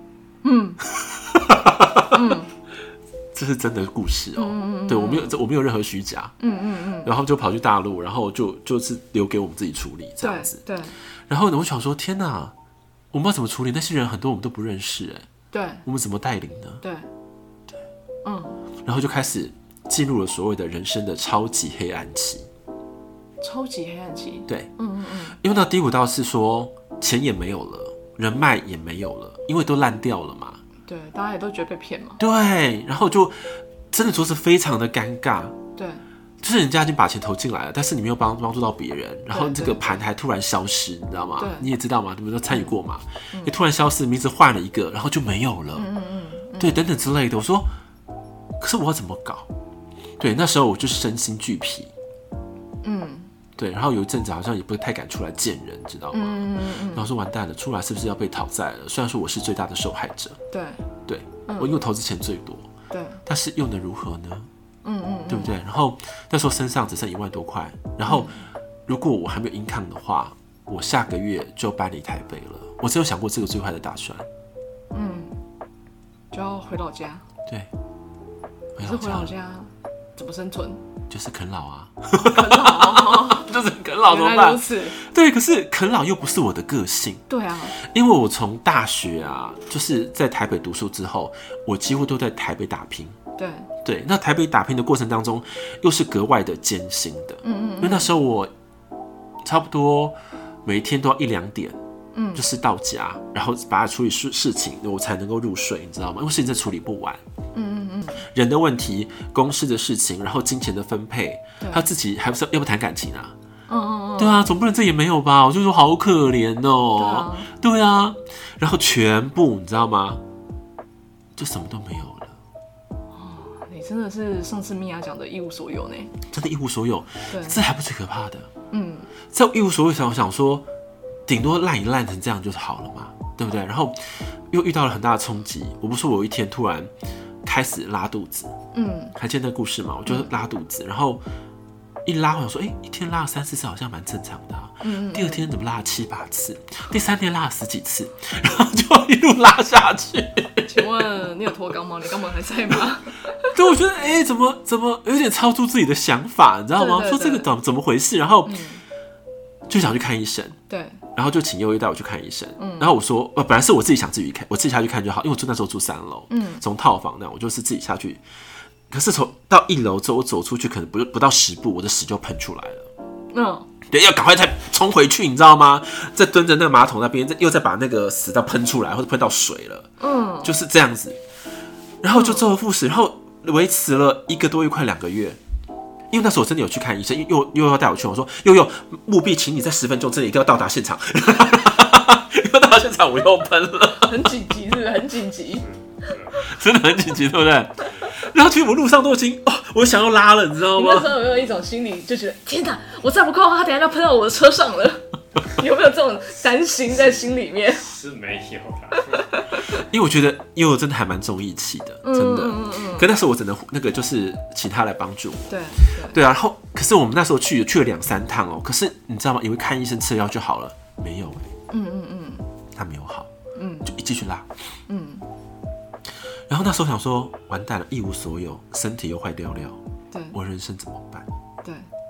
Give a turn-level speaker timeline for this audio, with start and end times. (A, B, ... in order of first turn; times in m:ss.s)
0:00.4-0:00.8 A
0:00.9-0:02.2 B
0:02.1-0:02.5 A
0:03.3-0:06.3 B
0:04.4-0:05.4 A
0:06.4-0:07.1 A
0:07.0-0:10.6 B
0:10.2-0:11.0 A
0:11.3-0:12.6 B
0:13.1-0:15.3 B
0:15.5-0:15.8 A
0:15.8-0:16.8 B
0:16.8-0:17.1 A
0:18.2-0:18.6 A
0:18.8-0:22.5 B
0:23.4-0:25.4 A
0:25.4-0:30.6 B
0:30.9-0:32.2 A
0:32.2-0:35.6 B
0:35.8-0:36.0 A
0:36.4-0:45.9 B
0:39.3-0:40.0 A
0:41.4-0:41.7 A
0:42.5-0:42.8 A
0:45.8-0:46.8 A
0:46.6-0:47.7 B
0:48.6-0:49.5 B
0:50.2-0:51.9 B
0:52.8-0:53.3 A
0:53.6-1:00.4 B
0:56.1-0:57.1 A
1:00.5-1:00.8 A
1:01.1-1:02.7 B
1:01.5-1:01.8 A
1:02.9-1:03.2 A
1:03.3-1:04.5 B
1:04.8-1:05.5 A
1:05.3-1:08.3 B
1:08.0-1:08.5 A
1:08.9-1:14.3 B
1:14.9-1:15.4 A
1:16.3-1:17.2 A
1:18.8-1:19.3 B
1:18.8-1:20.8 A
1:21.1-1:27.2 B
1:22.2-1:23.5 A
1:24.0-1:25.0 A
1:27.3-1:27.8 A
1:27.7-1:33.2 B
1:33.4-1:33.7 A
1:33.8-1:38.5 B
1:37.4-1:38.2 A
1:39.4-1:41.8 B
1:42.1-1:42.5 A
1:42.3-1:47.2 B
1:47.5-1:48.3 A
1:48.3-1:53.4 B
1:51.6-1:51.9 A
1:53.7-1:54.5 A
1:54.2-2:00.2 B
1:57.0-1:57.5 A
2:01.4-2:02.4 B
2:03.1-2:06.1 A
2:06.3-2:08.5 B
2:07.3-2:07.6 A
2:08.7-2:09.1 A
2:09.3-2:10.7 B
2:11.3-2:16.9 B
2:17.4-2:18.5 B
2:18.7-2:19.2 A
2:19.2-2:21.2 B
2:22.0-2:31.3 B
2:24.8-2:25.5 A
2:30.7-2:33.6 A
2:33.5-2:38.6 B
2:36.8-2:37.5 A
2:38.5-2:38.8 A
2:39.7-2:40.6 B
2:40.7-2:41.0 A
2:41.2-2:48.2 B
2:42.6-2:42.9 A
2:46.3-2:46.6 A
2:48.9-2:52.9 B
2:53.3-2:53.7 A
2:53.9-2:59.9 B
3:00.0-3:00.5 A
3:00.4-3:01.2 B
3:02.0-3:05.4 B
3:02.1-3:02.4 A
3:06.1-3:14.3 B
3:13.9-3:16.1 A
3:15.6-3:16.4 C
3:16.4-3:21.2 B
3:20.8-3:27.9 A
3:27.8-3:29.3 C
3:28.9-3:29.8 A
3:29.7-3:41.5 B
3:32.0-3:33.1 A
3:35.5-3:36.2 A
3:41.7-3:42.5 A
3:42.7-3:43.3 B
3:43.6-3:43.9 A
3:43.8-3:44.5 B
3:44.9-3:45.3 A
3:46.5-3:49.8 B
3:50.1-3:50.4 A
3:50.3-3:51.3 B